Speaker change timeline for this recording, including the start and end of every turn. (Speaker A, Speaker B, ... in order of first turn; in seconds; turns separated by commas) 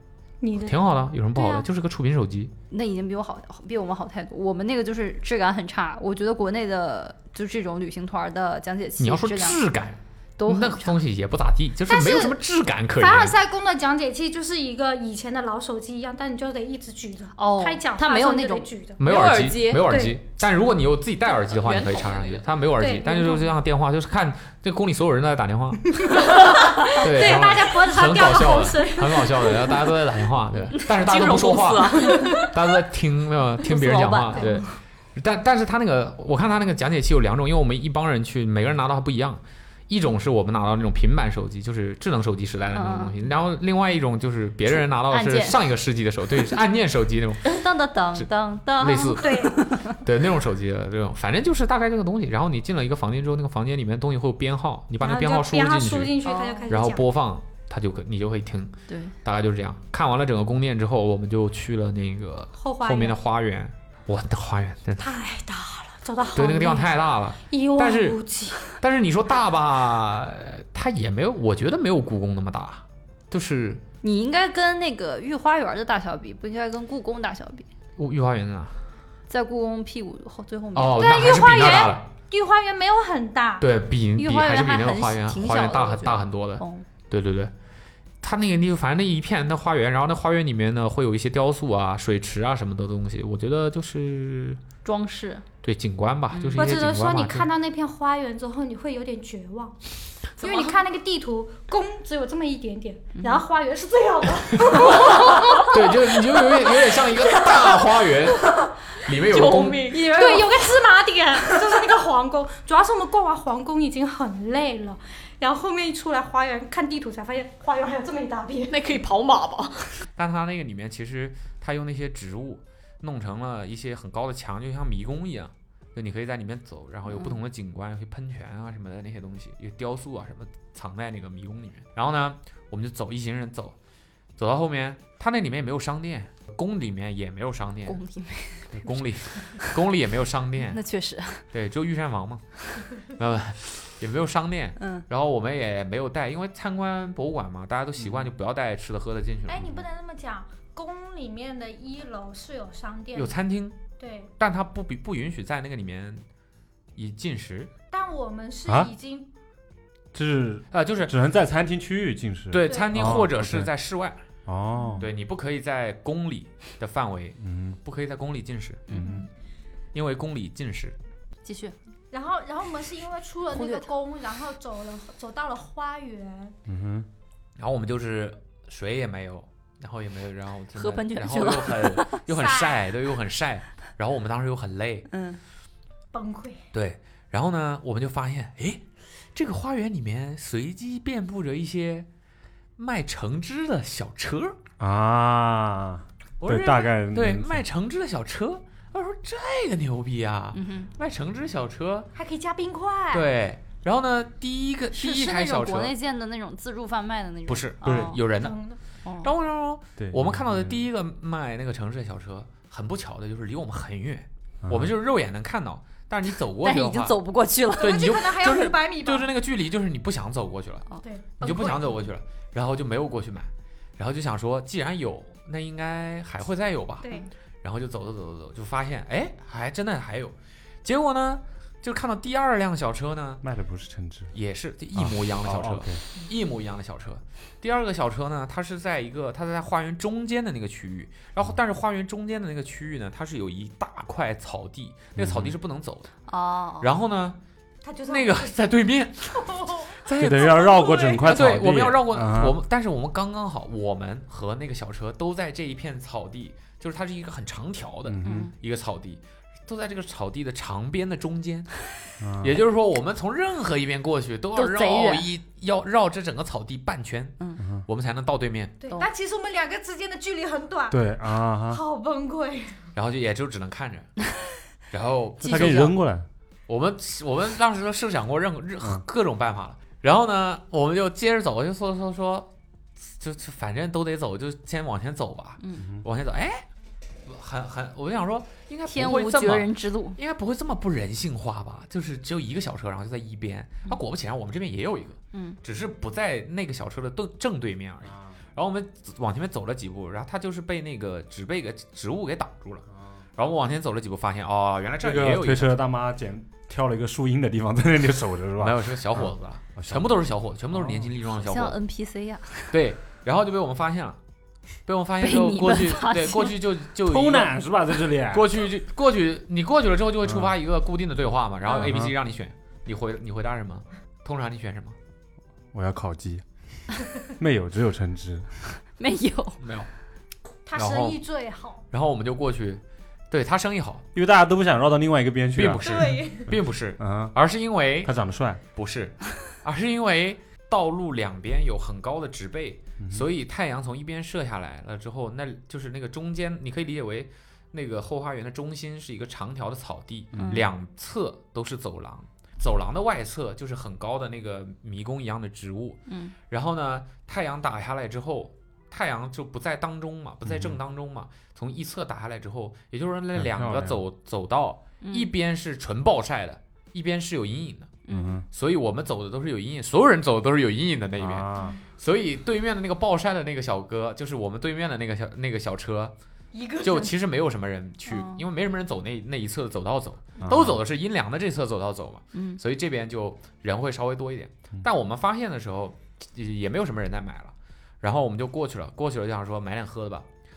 Speaker A: 0.4-1.6, Speaker B: 0.6-2.5, Speaker C: 2.7-9.6, Speaker B: 9.0-13.3, Speaker C: 10.4-11.0, Speaker A: 11.9-12.4, Speaker A: 13.0-19.0, Speaker C: 17.4-18.7, Speaker B: 19.0-26.4, Speaker D: 19.1-19.9, Speaker A: 19.8-20.2, Speaker D: 21.5-22.4, Speaker A: 22.8-23.5, Speaker A: 26.0-29.8, Speaker B: 26.9-47.6, Speaker D: 30.8-32.5, Speaker A: 32.0-32.5, Speaker C: 33.6-34.7, Speaker A: 34.4-34.6, Speaker C: 42.7-43.2, Speaker C: 44.7-45.6, Speaker C: 47.5-50.0, Speaker B: 48.1-65.1, Speaker A: 49.1-49.6, Speaker A: 55.0-57.0, Speaker C: 56.2-56.7, Speaker C: 58.9-59.1, Speaker A: 62.6-63.2, Speaker A: 65.0-68.8, Speaker B: 66.3-68.2, Speaker B: 68.8-73.8, Speaker C: 74.0-77.7, Speaker B: 78.0-78.8, Speaker C: 79.3-81.1, Speaker B: 80.7-82.1, Speaker A: 80.9-83.7, Speaker B: 83.6-87.5, Speaker C: 84.2-86.8, Speaker B: 88.2-94.6, Speaker C: 94.8-95.4, Speaker B: 95.6-97.5, Speaker C: 96.3-96.7, Speaker A: 96.5-99.8, Speaker A: 100.4-105.8, Speaker D: 100.4-100.7, Speaker C: 103.2-103.4, Speaker B: 104.6-109.9, Speaker D: 109.1-110.4, Speaker C: 109.9-110.5, Speaker A: 110.0-118.8, Speaker D: 118.7-120.0, Speaker B: 120.2-133.8, Speaker C: 127.1-127.4, Speaker B: 134.4-138.0, Speaker C: 137.8-138.9, Speaker B: 138.7-140.8, Speaker C: 140.7-141.5, Speaker B: 141.5-142.4, Speaker B: 143.0-149.8, Speaker C: 144.8-145.1, Speaker A: 149.5-153.3, Speaker B: 153.1-153.8, Speaker A: 154.0-154.3, Speaker B: 154.4-156.2, Speaker B: 156.9-157.7, Speaker A: 157.9-159.3, Speaker E: 158.7-158.9, Speaker E: 160.1-163.7, Speaker B: 160.7-161.1, Speaker B: 162.5-164.2, Speaker A: 162.6-163.1, Speaker E: 164.4-165.0, Speaker B: 165.0-169.0, Speaker E: 167.4-167.8, Speaker C: 168.9-169.3, Speaker E: 168.9-169.2, Speaker B: 169.9-171.0, Speaker C: 171.4-171.7, Speaker A: 172.1-176.6, Speaker C: 173.5-173.9, Speaker E: 176.7-177.1, Speaker B: 177.6-185.1, Speaker C: 180.8-182.2, Speaker A: 182.3-182.8, Speaker C: 185.1-185.4, Speaker A: 186.1-186.6, Speaker B: 186.7-192.1, Speaker B: 192.8-194.6, Speaker E: 194.8-197.6, Speaker B: 196.4-202.1, Speaker C: 200.5-200.9, Speaker A: 202.1-203.3, Speaker B: 203.1-205.9, Speaker C: 204.9-208.3, Speaker B: 207.5-208.6, Speaker E: 207.8-208.2, Speaker A: 208.3-208.8, Speaker C: 209.0-209.3, Speaker B: 209.2-217.2, Speaker E: 210.0-210.8, Speaker E: 214.6-214.9, Speaker C: 216.6-218.1, Speaker A: 217.8-219.3, Speaker B: 217.8-220.9, Speaker A: 221.0-222.1, Speaker B: 221.4-233.4, Speaker A: 227.0-227.3, Speaker E: 233.4-234.3, Speaker B: 234.3-246.1, Speaker E: 234.9-236.0, Speaker E: 245.2-245.5, Speaker C: 246.3-246.9, Speaker B: 246.8-247.4, Speaker A: 247.8-248.6, Speaker B: 248.1-261.7, Speaker A: 249.3-249.9, Speaker E: 250.2-252.6, Speaker A: 250.5-251.3, Speaker E: 258.1-258.5, Speaker C: 258.2-258.5, Speaker E: 262.2-262.6, Speaker B: 262.4-268.8, Speaker C: 264.5-265.3, Speaker A: 268.8-271.0, Speaker E: 270.9-271.8, Speaker A: 271.6-272.8, Speaker B: 272.9-274.1, Speaker B: 274.9-275.9, Speaker E: 275.4-276.2, Speaker B: 276.7-286.7, Speaker B: 287.2-305.8, Speaker C: 288.9-290.2, Speaker C: 295.3-295.6, Speaker E: 298.1-298.4, Speaker E: 302.9-303.2, Speaker E: 305.0-310.2, Speaker B: 308.6-311.8, Speaker E: 310.7-311.1, Speaker C: 311.2-312.8, Speaker B: 312.7-314.2, Speaker B: 314.9-317.6, Speaker C: 315.2-316.6, Speaker E: 317.0-318.5, Speaker B: 318.3-325.0, Speaker E: 320.2-320.5, Speaker E: 321.7-322.1, Speaker E: 325.7-326.4, Speaker E: 327.3-328.6, Speaker C: 329.0-329.6, Speaker B: 329.6-329.9, Speaker A: 330.6-331.8, Speaker B: 330.7-331.2, Speaker B: 331.9-334.1, Speaker E: 334.1-337.3, Speaker B: 335.5-338.1, Speaker A: 335.8-336.5, Speaker E: 338.0-338.6, Speaker B: 338.7-376.1, Speaker E: 350.3-350.6, Speaker C: 350.3-350.6, Speaker C: 356.1-356.3, Speaker E: 360.4-360.8, Speaker E: 363.4-364.0, Speaker C: 365.0-365.3, Speaker C: 368.1-368.4, Speaker E: 368.1-368.4, Speaker E: 371.2-371.7, Speaker A: 376.5-377.1, Speaker B: 376.8-390.3, Speaker C: 378.1-378.4, Speaker E: 380.4-380.8, Speaker C: 382.3-382.6